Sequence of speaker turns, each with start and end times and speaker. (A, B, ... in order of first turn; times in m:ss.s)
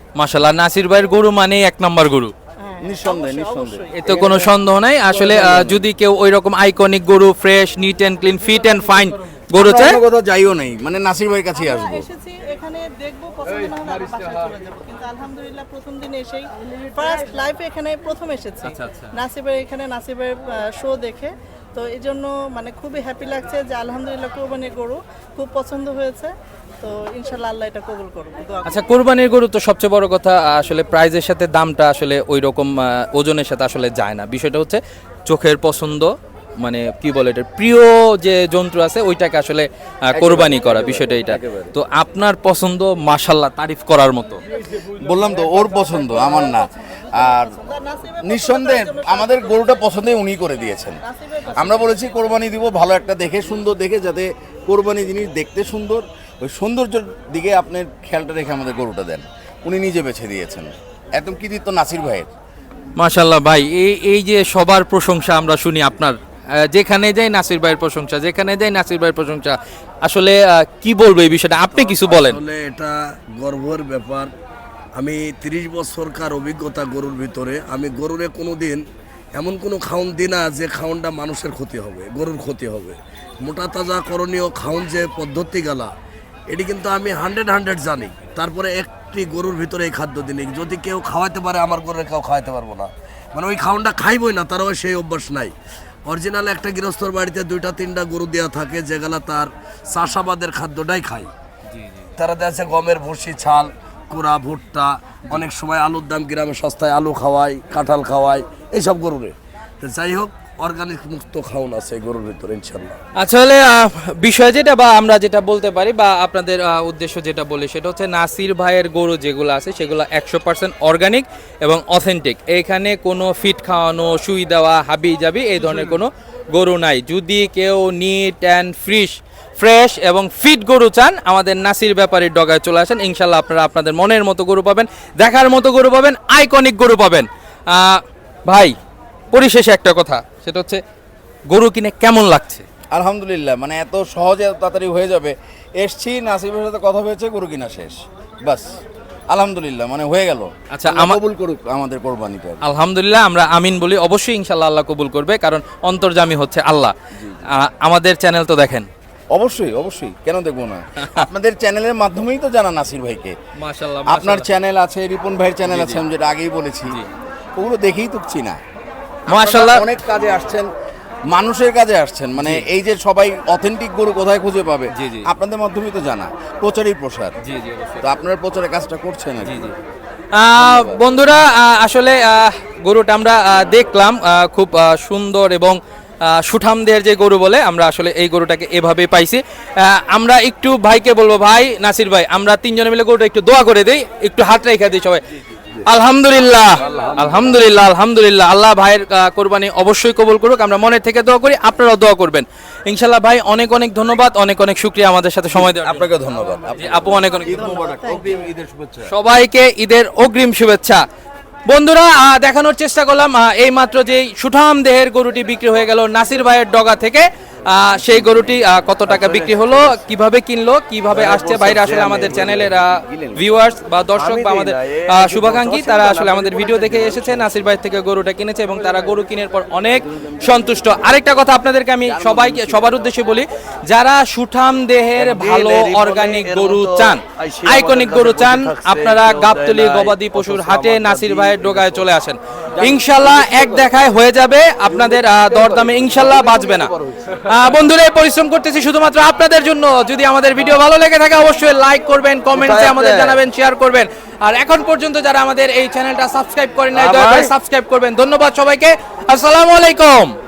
0:00.2-0:02.3 A
0:02.6-0:04.4 B
0:02.8-0:04.5 C
0:03.9-0:10.0 A
0:05.1-0:05.8 C
0:09.5-0:12.0 C
0:11.5-0:28.8 B
0:18.6-0:19.1 A
0:28.6-0:44.4 A
0:40.1-0:41.7 C
0:44.8-0:47.6 C
0:45.8-0:49.7 B
0:48.2-0:51.0 C
0:51.0-0:52.0 B
0:51.4-0:51.9 A
0:51.5-1:02.3 C
1:03.0-1:12.4 A
1:11.7-1:14.3 D
1:15.0-1:18.8 D
1:19.3-1:25.9 D
1:26.5-1:35.5 D
1:36.0-1:41.3 D
1:41.7-1:42.1 A
1:42.2-1:53.0 D
1:53.1-2:18.8 A
2:19.3-2:20.8 A
2:21.5-2:22.6 A
2:22.9-2:32.6 C
2:30.7-2:31.2 A
2:32.6-2:36.9 A
2:37.1-2:37.4 C
2:37.5-2:38.9 A
2:39.3-2:43.4 C
2:41.0-2:41.3 A
2:43.6-2:44.5 A
2:44.0-2:47.0 C
2:45.6-2:46.0 A
2:47.6-2:48.6 C
2:49.3-2:49.9 A
2:49.3-2:50.7 C
2:51.3-2:57.3 C
2:52.4-2:52.6 A
2:54.9-2:55.3 A
2:57.4-2:58.0 A
2:58.0-2:59.7 C
2:59.4-2:59.7 A
3:00.3-3:15.2 A
3:00.6-3:01.0 C
3:15.8-3:26.1 A
3:16.8-3:17.6 D
3:25.6-3:29.1 C
3:26.7-3:27.7 A
3:27.1-3:28.4 B
3:29.1-3:31.0 A
3:31.7-4:20.4 A
3:39.0-3:40.0 D
3:41.1-3:42.8 D
3:42.6-3:43.4 C
3:44.1-3:47.6 D
3:52.0-3:52.9 C
3:55.1-4:02.1 D
4:02.7-4:03.9 C
4:04.9-4:07.3 C
4:12.5-4:13.4 D
4:16.9-4:17.5 D